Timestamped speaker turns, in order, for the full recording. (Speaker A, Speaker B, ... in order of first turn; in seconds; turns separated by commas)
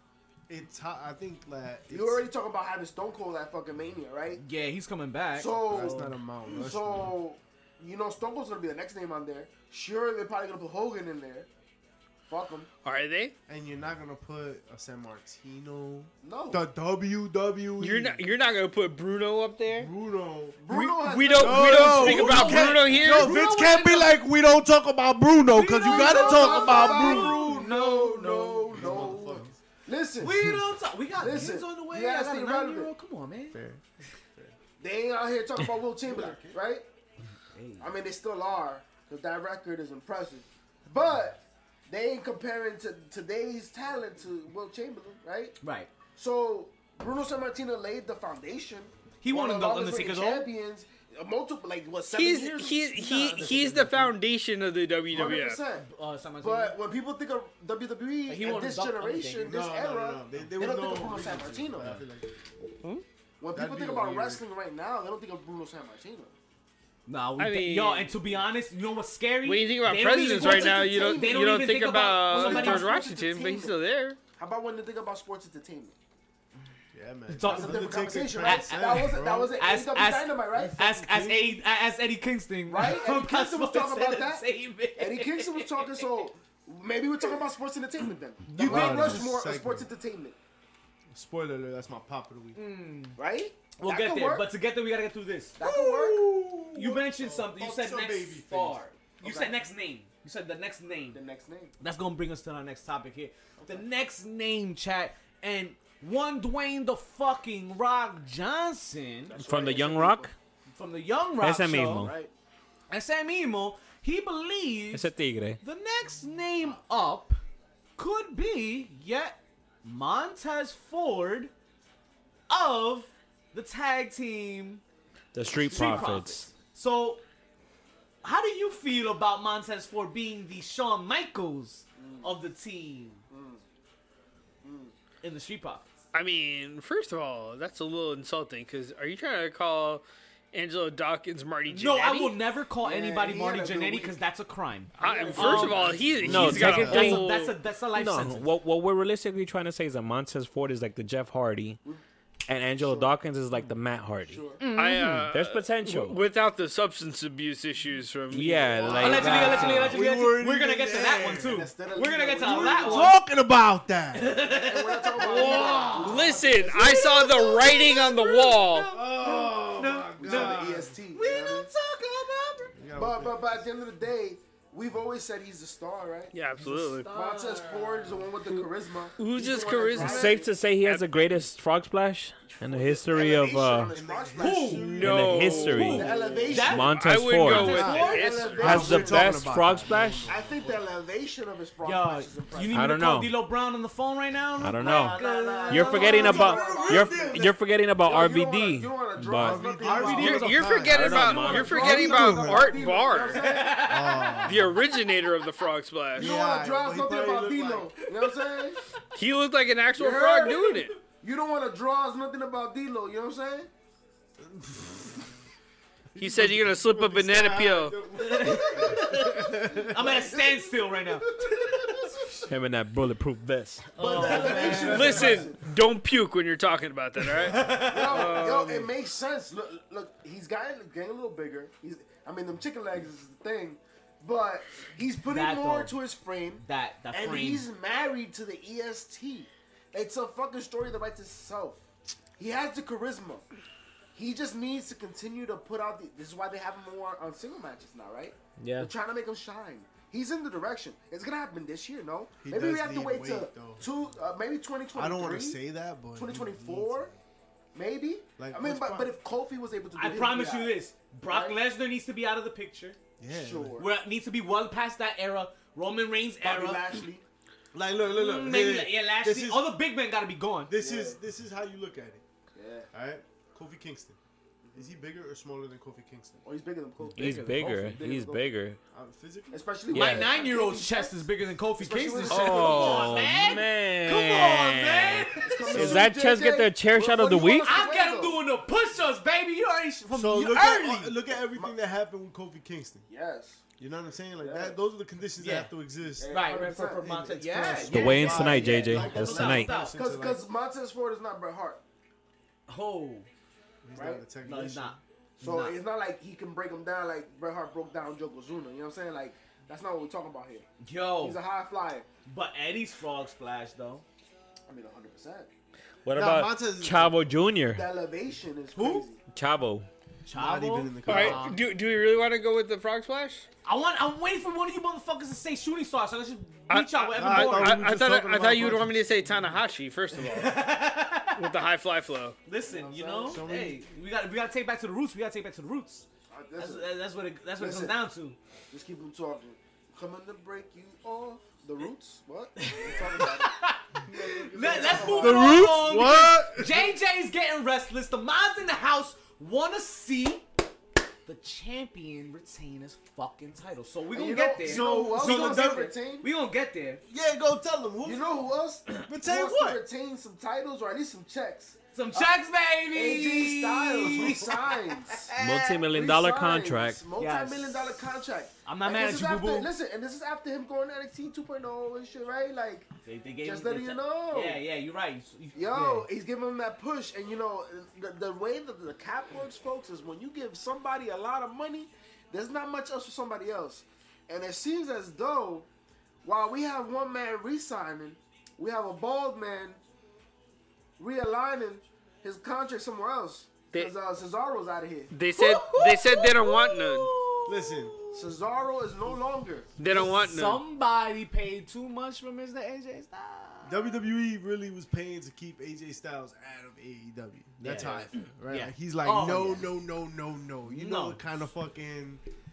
Speaker A: 0.5-2.2, Speaker B: 1.9-4.4, Speaker C: 4.3-6.1, Speaker B: 5.3-11.5, Speaker A: 5.7-7.1, Speaker B: 12.3-12.7, Speaker D: 12.8-13.3, Speaker A: 13.5-18.2, Speaker B: 16.2-16.6, Speaker D: 17.8-19.9, Speaker A: 19.7-20.6, Speaker B: 20.6-22.2, Speaker D: 20.7-23.3, Speaker A: 21.4-27.7, Speaker C: 21.9-24.2, Speaker C: 25.5-29.0, Speaker B: 25.8-30.6, Speaker A: 28.7-29.6, Speaker C: 30.2-33.6, Speaker B: 31.2-32.9, Speaker A: 33.5-33.8, Speaker B: 34.8-36.8, Speaker A: 36.0-36.6, Speaker C: 37.5-37.9, Speaker B: 37.8-45.5, Speaker C: 45.6-45.9, Speaker B: 46.1-54.1, Speaker C: 49.2-50.5, Speaker D: 52.1-55.6, Speaker B: 55.1-55.9, Speaker C: 55.7-56.8, Speaker B: 56.4-62.0, Speaker C: 58.2-59.5, Speaker A: 59.4-62.3, Speaker B: 63.4-66.3, Speaker A: 63.5-64.4, Speaker C: 67.1-72.9, Speaker D: 67.4-68.2, Speaker D: 69.4-74.2, Speaker B: 70.3-71.7, Speaker B: 72.2-73.7, Speaker B: 74.3-76.0, Speaker A: 76.9-79.6, Speaker C: 77.3-86.0, Speaker B: 77.4-80.8, Speaker A: 80.7-81.5, Speaker B: 82.7-90.3, Speaker C: 88.5-89.3, Speaker A: 88.5-89.9, Speaker A: 91.1-92.6, Speaker C: 92.5-93.2, Speaker B: 93.2-94.5, Speaker C: 93.8-95.6, Speaker B: 95.6-96.3, Speaker A: 95.6-98.8, Speaker C: 96.7-101.2, Speaker B: 99.2-99.5, Speaker B: 101.1-101.7, Speaker C: 101.8-109.3, Speaker B: 109.3-110.3, Speaker E: 109.4-110.3, Speaker C: 110.7-112.1, Speaker E: 111.4-112.1, Speaker B: 111.9-112.3, Speaker C: 112.9-115.1, Speaker E: 114.9-115.6, Speaker C: 115.6-117.4, Speaker C: 118.0-121.5, Speaker C: 122.5-124.8, Speaker E: 125.3-126.5, Speaker C: 125.5-127.2, Speaker B: 125.7-126.0, Speaker C: 128.2-133.2, Speaker B: 132.0-132.3, Speaker B: 133.3-133.6, Speaker B: 134.6-134.9, Speaker C: 135.2-135.9, Speaker D: 136.1-142.4, Speaker C: 141.7-148.5, Speaker B: 142.8-144.2, Speaker D: 145.0-147.6, Speaker B: 145.0-146.3, Speaker A: 145.7-147.1, Speaker E: 146.2-147.3, Speaker E: 147.9-151.8, Speaker E: 152.5-154.4, Speaker B: 152.7-153.2, Speaker B: 154.2-154.6, Speaker C: 154.6-155.2, Speaker D: 154.7-159.2, Speaker E: 155.2-156.2, Speaker E: 158.3-160.0, Speaker B: 158.7-159.8, Speaker C: 158.9-163.2, Speaker A: 159.1-161.7, Speaker B: 161.4-163.2, Speaker A: 162.4-164.4, Speaker C: 164.1-166.3, Speaker B: 164.4-167.7, Speaker D: 165.2-168.9, Speaker A: 165.4-165.9, Speaker C: 167.0-172.7, Speaker A: 168.9-170.9, Speaker B: 170.2-171.7, Speaker A: 172.7-173.7, Speaker B: 172.9-176.3, Speaker D: 176.3-177.1, Speaker C: 176.6-178.3, Speaker B: 177.1-180.5, Speaker D: 179.2-181.3, Speaker E: 180.0-183.9, Speaker B: 182.4-185.0, Speaker A: 183.9-186.8, Speaker C: 184.4-184.9, Speaker E: 184.9-187.9, Speaker D: 184.9-186.0, Speaker C: 185.5-188.6, Speaker B: 185.7-189.5, Speaker D: 186.9-188.9, Speaker A: 187.5-190.8, Speaker E: 188.6-190.3, Speaker B: 190.2-192.8, Speaker C: 191.8-196.9, Speaker E: 192.7-193.3, Speaker E: 194.6-199.6, Speaker B: 194.8-200.6, Speaker A: 196.0-197.5, Speaker A: 199.3-202.8, Speaker C: 199.8-202.0, Speaker D: 200.1-203.5, Speaker E: 200.8-201.9, Speaker B: 201.5-204.1, Speaker C: 203.2-204.8, Speaker A: 203.7-204.8, Speaker D: 204.4-206.3, Speaker A: 206.2-207.9, Speaker B: 206.2-208.8, Speaker D: 209.1-210.9, Speaker B: 210.0-213.7, Speaker A: 214.4-215.3, Speaker A: 216.1-220.1, Speaker D: 216.2-218.0, Speaker C: 218.2-221.3, Speaker B: 218.4-222.5, Speaker E: 222.5-224.5, Speaker C: 223.9-225.4, Speaker B: 223.9-225.6, Speaker A: 224.2-225.3, Speaker D: 224.6-228.9, Speaker C: 227.4-228.4, Speaker B: 227.7-241.8, Speaker C: 235.2-236.0, Speaker C: 236.6-237.7, Speaker B: 242.4-243.5, Speaker B: 244.1-255.6, Speaker E: 248.6-248.9, Speaker A: 252.4-253.9, Speaker A: 254.9-257.1, Speaker B: 256.1-257.1, Speaker B: 257.7-261.6, Speaker A: 258.4-259.1, Speaker C: 259.9-263.0, Speaker A: 263.2-263.8, Speaker B: 263.3-263.9, Speaker C: 263.8-267.0, Speaker B: 266.4-267.2, Speaker A: 267.7-269.7, Speaker C: 268.0-270.7, Speaker A: 270.7-272.2, Speaker B: 270.8-271.2, Speaker B: 272.5-272.9, Speaker A: 272.9-274.2, Speaker B: 274.6-274.9, Speaker A: 274.7-276.4, Speaker B: 276.4-278.4, Speaker C: 277.1-278.0, Speaker E: 277.2-278.8, Speaker A: 278.9-279.6, Speaker B: 279.5-283.2, Speaker C: 279.9-286.1, Speaker E: 279.9-280.3, Speaker E: 282.3-287.8, Speaker B: 285.4-288.4, Speaker A: 285.7-286.1, Speaker C: 287.6-291.1, Speaker A: 290.1-293.0, Speaker B: 293.1-293.6, Speaker A: 293.8-296.4, Speaker B: 294.4-294.8, Speaker C: 295.4-295.7, Speaker B: 296.2-297.1, Speaker C: 296.3-300.0, Speaker A: 297.0-300.4, Speaker E: 297.9-299.7, Speaker B: 297.9-301.8, Speaker C: 302.7-303.3, Speaker A: 303.8-305.0, Speaker B: 303.9-304.2, Speaker C: 304.4-305.8, Speaker B: 305.4-310.6, Speaker C: 310.8-311.4, Speaker B: 311.2-312.1, Speaker C: 312.2-314.0, Speaker B: 314.7-315.5, Speaker E: 316.0-317.9, Speaker A: 316.1-317.3, Speaker B: 317.7-319.2, Speaker C: 318.7-319.1, Speaker E: 319.3-319.9, Speaker C: 320.2-321.6, Speaker A: 320.3-321.5, Speaker D: 321.1-323.5, Speaker C: 323.6-327.8, Speaker D: 326.7-330.6, Speaker A: 327.1-329.3, Speaker C: 330.1-331.5, Speaker D: 331.3-332.4, Speaker C: 332.4-338.4, Speaker B: 332.6-333.4, Speaker A: 333.2-333.8, Speaker B: 336.3-336.9, Speaker B: 337.6-338.0, Speaker B: 338.7-345.8, Speaker C: 342.6-350.5, Speaker A: 344.1-346.9, Speaker C: 351.2-357.0, Speaker B: 354.1-356.3, Speaker A: 354.6-355.9, Speaker A: 357.1-358.3, Speaker B: 358.0-362.4, Speaker A: 359.0-359.8, Speaker C: 361.9-365.9, Speaker B: 362.9-372.9, Speaker E: 365.4-367.0, Speaker C: 367.2-368.1, Speaker C: 368.6-369.7, Speaker C: 373.0-376.1, Speaker B: 373.4-374.6, Speaker B: 375.5-385.7, Speaker B: 386.2-389.8, Speaker B: 391.0-395.1, Speaker D: 395.1-397.1, Speaker C: 395.3-398.4, Speaker A: 397.4-397.9, Speaker B: 398.1-399.7, Speaker D: 399.8-400.6, Speaker C: 399.9-404.0, Speaker A: 403.6-412.2, Speaker C: 407.6-409.7, Speaker C: 410.6-411.2